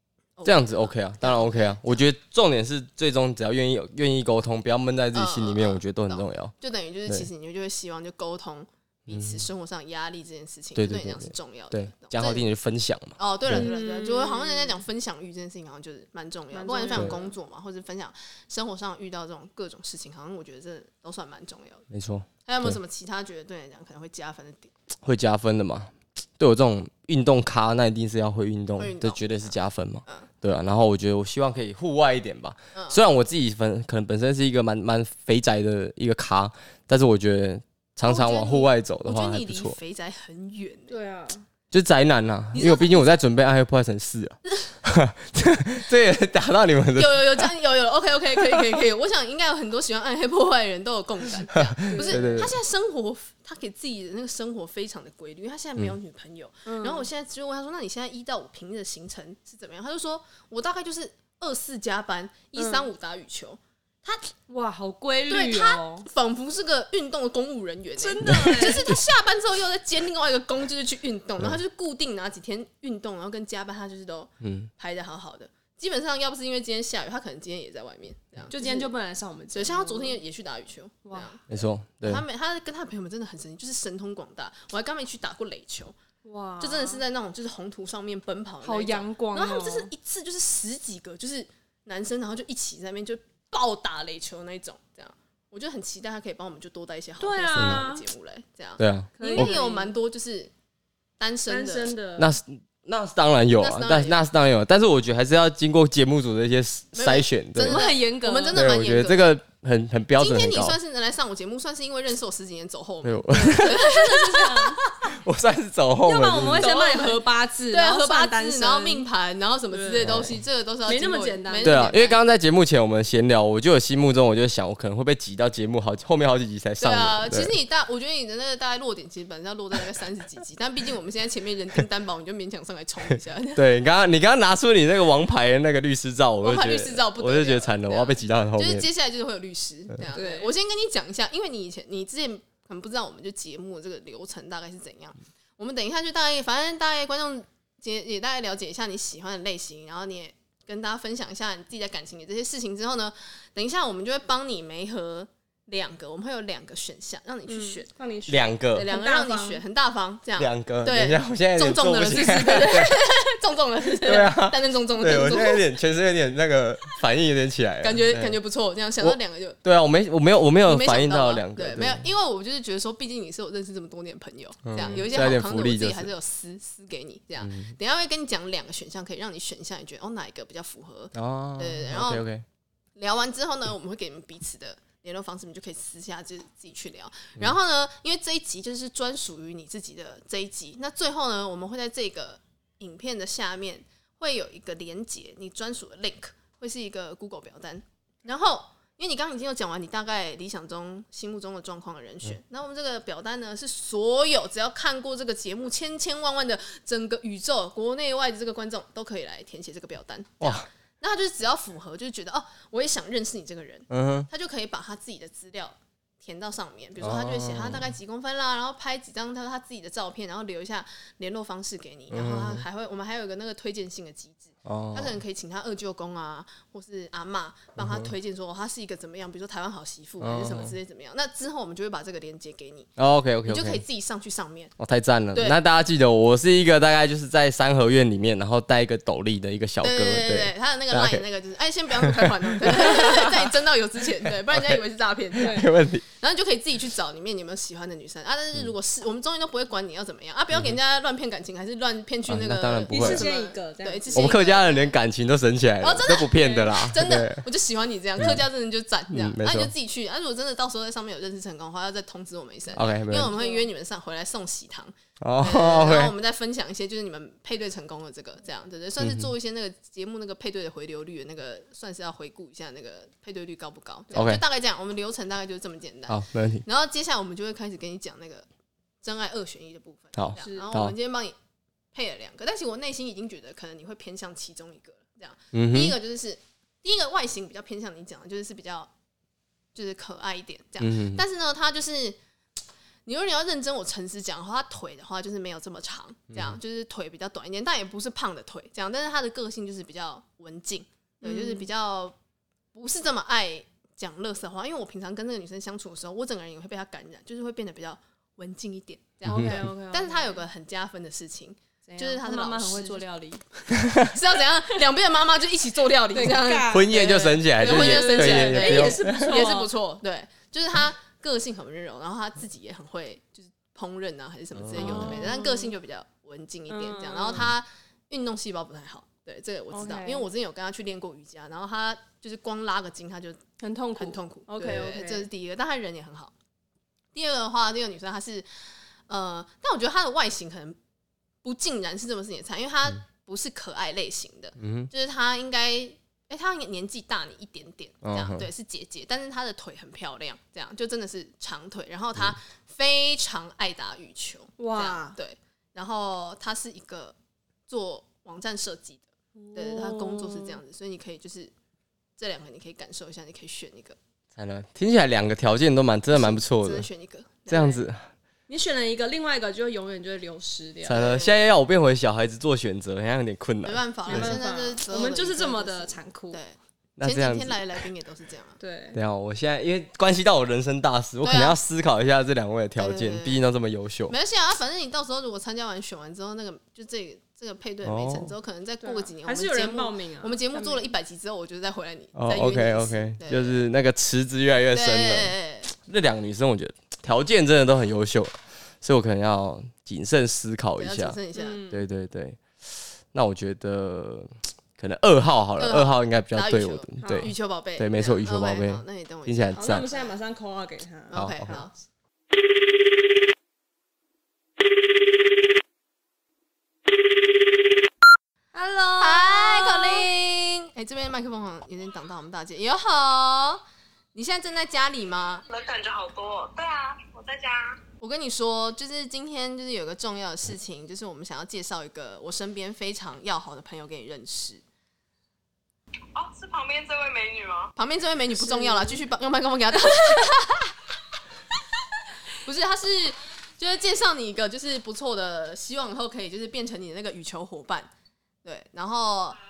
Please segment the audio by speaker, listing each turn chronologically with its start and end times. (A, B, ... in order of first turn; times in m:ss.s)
0:00.4-0:02.0 A
0:00.4-0:06.5 B
0:05.1-0:12.4 A
0:09.1-0:09.4 B
0:10.8-0:13.7 B
0:13.2-0:21.8 A
0:13.5-0:14.8 C
0:16.5-0:17.3 C
0:21.9-0:22.8 B
0:22.4-0:24.7 A
0:25.0-0:39.8 B
0:28.8-0:29.5 A
0:32.7-0:33.0 A
0:38.0-0:40.9 A
0:40.9-0:41.4 C
0:41.7-0:47.5 B
0:42.5-0:43.2 A
0:47.0-1:04.3 A
0:51.6-0:52.5 B
0:51.9-0:52.5 C
0:56.6-0:57.1 C
1:02.5-1:02.9 C
1:04.5-1:06.0 C
1:05.3-1:18.9 A
1:08.0-1:08.9 C
1:08.3-1:08.9 B
1:14.4-1:14.7 B
1:18.5-1:20.2 C
1:19.5-1:21.4 A
1:21.0-1:21.3 C
1:21.5-1:22.2 B
1:22.0-1:25.9 A
1:26.2-1:27.0 C
1:26.6-1:40.5 A
1:28.6-1:29.9 C
1:37.2-1:38.0 C
1:37.6-1:37.8 B
1:38.8-1:39.5 B
1:39.2-1:39.9 C
1:41.2-1:41.9 A
1:41.5-1:42.3 C
1:42.2-1:47.8 B
1:43.6-1:44.2 A
1:46.9-1:49.4 A
1:47.6-1:48.6 C
1:48.5-1:50.8 B
1:50.2-1:55.1 A
1:53.0-1:53.9 B
1:53.4-1:54.8 C
1:55.0-1:56.7 B
1:56.0-1:59.1 C
1:56.6-2:02.2 A
1:59.7-2:00.3 C
2:00.0-2:00.4 B
2:00.8-2:01.9 C
2:01.6-2:07.5 B
2:06.8-2:13.6 A
2:13.6-2:18.9 B
2:16.4-2:37.9 A
2:20.1-2:20.5 C
2:37.5-2:39.6 C
2:38.3-2:38.9 B
2:38.7-2:45.7 A
2:40.4-2:43.0 B
2:44.0-2:48.4 B
2:47.8-2:49.6 A
2:49.0-2:52.0 B
2:50.6-3:02.3 A
2:54.6-2:56.1 B
2:57.4-2:57.7 B
3:01.1-3:02.4 B
3:03.0-3:52.9 A
3:30.4-3:30.7 B
3:33.9-3:34.3 B
3:37.0-3:37.9 B
3:42.1-3:42.6 B
3:44.6-3:45.2 B
3:47.8-3:48.1 B
3:50.2-3:50.8 B
3:53.0-3:53.8 B
3:53.4-3:54.7 A
3:54.8-4:01.2 B
3:59.8-4:14.9 A
4:02.0-4:03.5 B
4:04.5-4:04.8 B
4:05.4-4:06.0 B
4:05.4-4:05.7 C
4:12.3-4:13.3 B
4:12.9-4:14.4 C
4:14.1-4:17.4 B
4:15.8-4:38.4 A
4:18.2-4:18.4 B
4:19.1-4:19.7 B
4:22.8-4:23.4 B
4:23.3-4:23.6 C
4:25.2-4:26.1 B
4:29.0-4:29.3 B
4:34.1-4:34.4 B
4:36.1-4:36.6 B
4:39.0-4:41.4 A
4:40.1-4:40.9 B
4:40.4-4:40.7 C
4:41.9-4:48.9 A
4:45.5-4:46.0 B
4:49.8-4:52.2 A
4:50.8-4:51.2 B
4:53.0-5:02.2 A
4:56.3-4:56.6 B
5:01.2-5:01.7 C
5:02.7-5:13.0 A
5:09.2-5:10.4 C
5:09.3-5:09.6 B
5:11.9-5:13.9 C
5:13.8-5:14.1 B
5:14.0-5:33.4 A
5:16.1-5:19.7 C
5:16.7-5:19.4 B
5:24.6-5:25.3 B
5:24.7-5:25.8 C
5:26.7-5:27.5 C
5:29.7-5:30.3 C
5:33.6-5:35.3 C
5:34.0-5:36.3 A
5:37.1-5:38.5 A
5:39.1-5:40.8 A
5:41.4-5:57.2 A
5:44.6-5:44.9 B
5:48.0-5:48.5 B
5:54.6-5:55.2 C
5:57.7-6:01.5 A
5:59.4-6:00.6 C
6:02.2-6:04.0 A
6:04.4-6:06.9 B
6:06.1-6:07.8 A
6:07.5-6:08.1 B
6:08.5-6:11.1 C
6:10.8-6:14.4 B
6:10.9-6:11.4 A
6:13.6-6:18.6 A
6:14.1-6:16.4 C
6:17.0-6:17.6 B
6:18.6-6:19.0 C
6:18.9-6:24.1 B
6:21.2-6:21.6 A
6:22.8-6:23.4 A
6:24.1-6:33.6 A
6:27.8-6:28.3 B
6:28.8-6:30.9 C
6:32.1-6:41.2 B
6:34.7-6:35.7 A
6:40.8-6:41.6 A
6:41.3-6:41.8 C
6:41.7-6:42.4 B
6:43.1-6:49.9 B
6:45.6-6:50.1 A
6:47.0-6:47.3 C
6:49.6-6:51.2 C
6:51.1-6:51.7 A
6:51.1-6:51.6 B
6:58.5-7:00.1 C
6:59.0-7:03.6 A
7:04.1-7:05.4 A
7:05.5-7:07.8 D
7:08.0-7:14.6 A
7:16.1-7:17.7 D
7:17.8-7:20.7 A
7:18.4-7:19.0 C
7:22.3-7:27.9 A
7:28.4-7:29.4 A